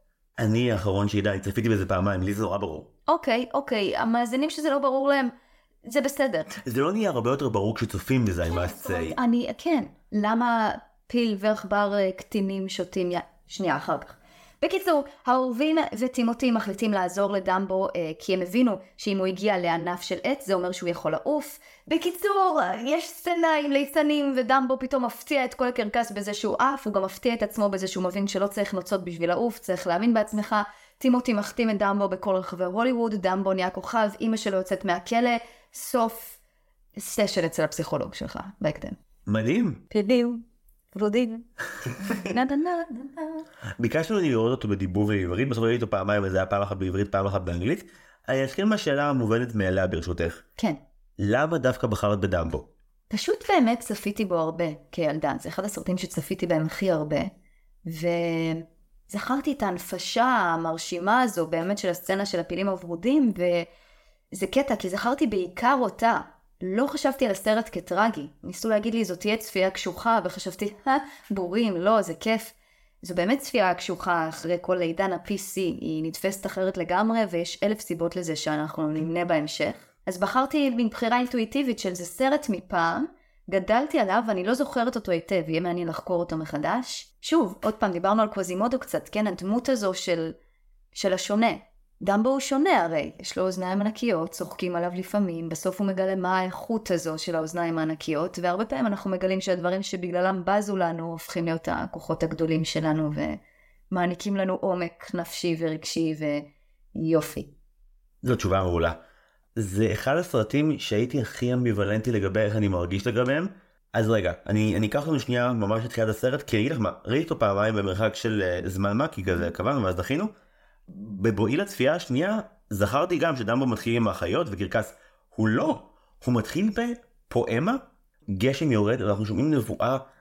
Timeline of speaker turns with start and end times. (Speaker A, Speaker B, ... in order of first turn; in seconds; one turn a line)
Speaker A: 0.4-2.9
Speaker B: 3.1-5.3
Speaker B: 5.8-6.6
Speaker A: 6.6-9.2
Speaker B: 8.4-36.4
Speaker B: 37.0-39.0
Speaker A: 39.3-39.8
Speaker B: 39.9-43.5
Speaker A: 43.8-50.4
Speaker A: 51.2-52.7
Speaker B: 53.1-57.3
Speaker B: 57.9-63.7
Speaker B: 64.3-90.4
Speaker B: 91.0-103.4
Speaker B: 103.9-107.5
Speaker A: 108.2-109.0
Speaker A: 109.6-120.3
Speaker A: 120.9-130.0